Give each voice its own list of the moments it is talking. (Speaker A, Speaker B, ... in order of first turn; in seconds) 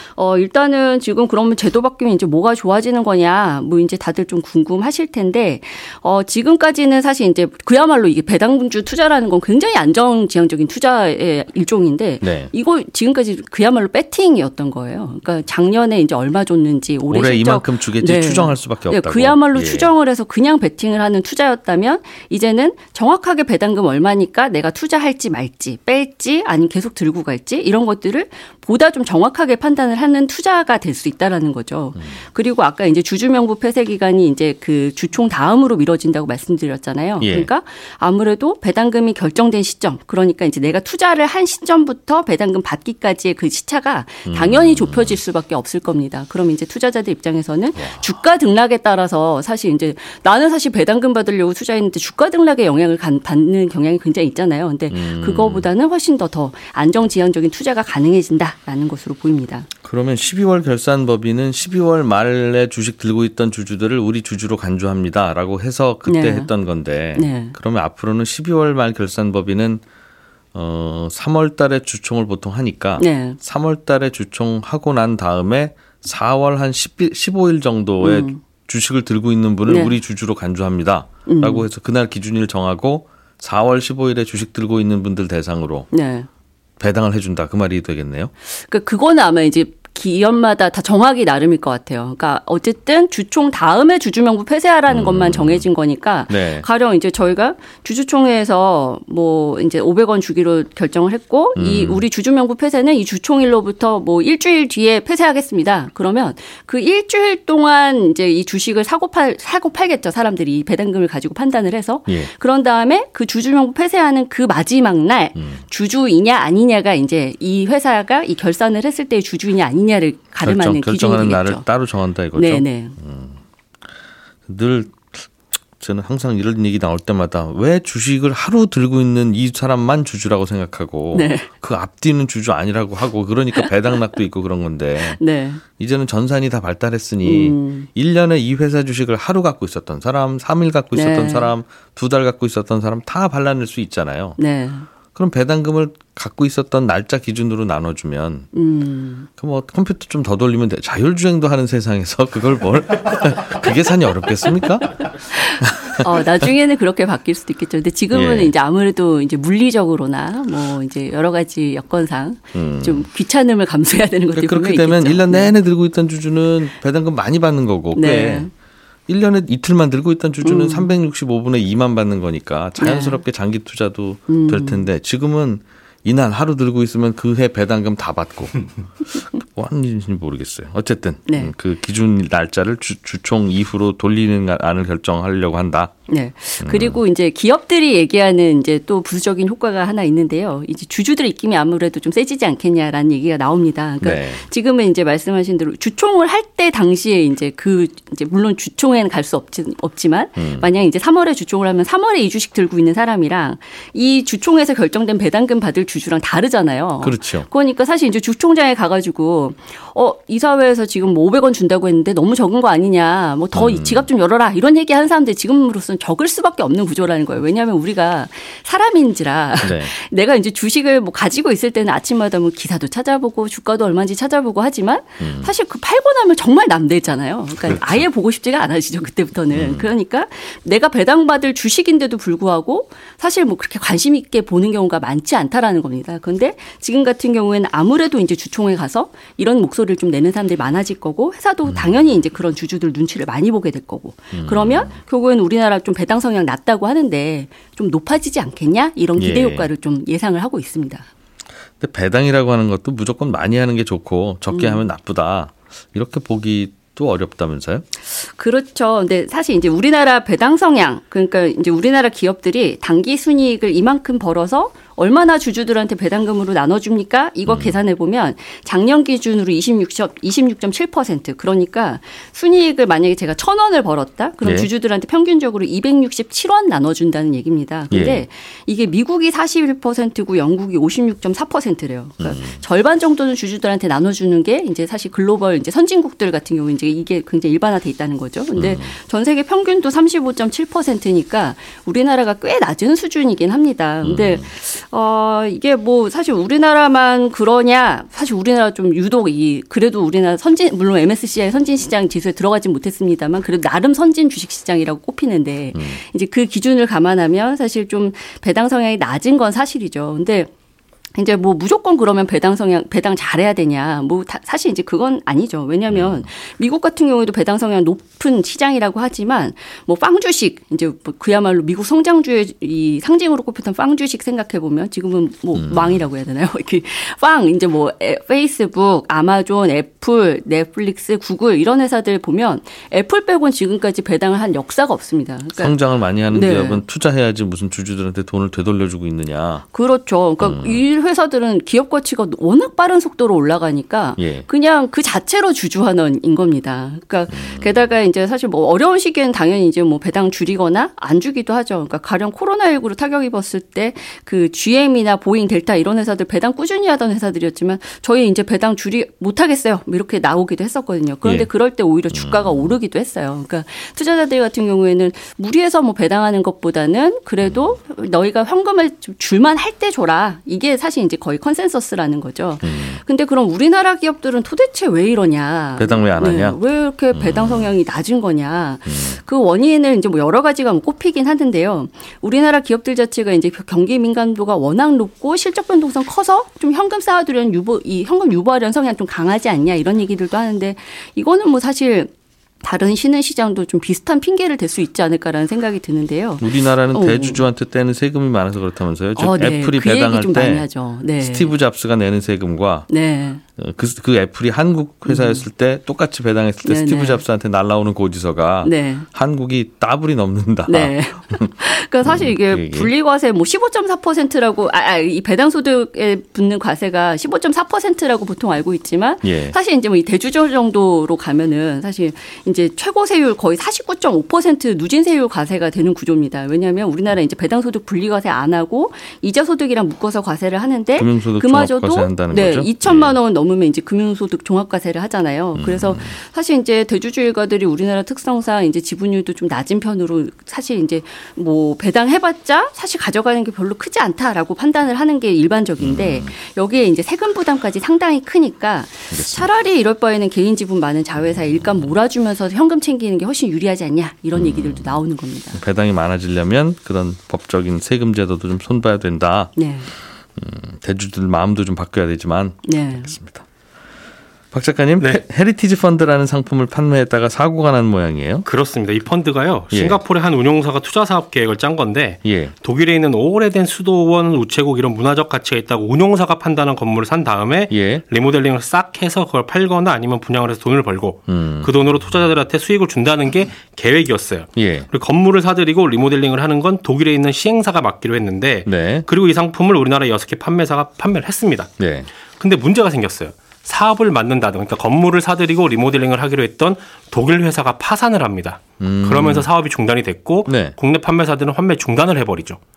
Speaker A: 0.1-59.7, 66.1-66.5, 67.1-67.6, 73.0-73.4, 78.0-78.4, 79.7-80.0, 81.3-81.7, 85.9-86.3, 88.5-121.7, 122.3-123.0, 131.1-131.5, 135.0-135.6, 137.2-137.9, 140.9-141.5, 144.4-144.9, 148.5-149.3, 155.8-165.5, 167.9-168.5, 170.4-170.9, 172.8-173.2, 174.3-174.9, 181.3-181.5, 186.1-251.1, 254.5-254.9, 258.1-310.5, 311.1-336.8, 339.7-392.1, 392.6-397.4, 399.2-401.5, 402.9-403.4, 405.1-405.4, 406.6-407.2, 408.6-409.1, 410.7-455.6, 459.6-459.9, 462.6-463.1
Speaker B: 12.2-12.5, 17.1-19.9, 37.2-37.5, 44.3-45.2, 47.8-48.0, 54.9-55.7, 59.8-69.8, 70.5-85.9, 86.8-88.3, 94.9-95.6, 96.3-96.7, 101.5-102.0, 115.4-115.6, 120.4-123.4, 124.5-135.2, 135.8-144.4, 145.1-148.5, 149.4-156.2, 158.1-158.5, 162.6-163.1, 164.3-168.5, 169.1-185.9, 186.6-187.0, 194.0-194.4, 200.4-200.7, 207.0-207.5, 213.5-214.1, 219.6-219.9, 225.2-225.5, 227.6-228.0, 229.5-229.9, 244.3-244.9, 249.2-249.7, 251.8-257.9, 267.5-267.8, 274.4-274.7, 277.9-278.2, 282.2-282.6, 288.6-288.9, 294.0-294.5, 315.9-316.2, 325.6-326.0, 335.5-339.6, 340.4-340.8, 344.2-344.5, 347.3-347.7, 361.2-361.5, 362.1-362.8, 367.4-367.7, 372.6-373.0, 375.8-376.6, 377.1-377.7, 378.9-379.2, 396.4-400.7, 401.2-402.9, 403.6-411.5, 412.0-412.9, 419.2-419.6, 431.0-433.2, 435.6-436.1, 445.8-446.3, 449.1-449.5, 454.4-455.0, 455.6-459.6, 460.4-463.5, 464.5-468.5, 469.7-470.0, 472.2-472.5, 477.7-478.0, 481.3-482.2, 484.6-484.9, 488.7-489.1, 491.8-492.1, 498.8-499.5, 500.5-500.8
Speaker C: 468.5-491.8, 492.3-502.6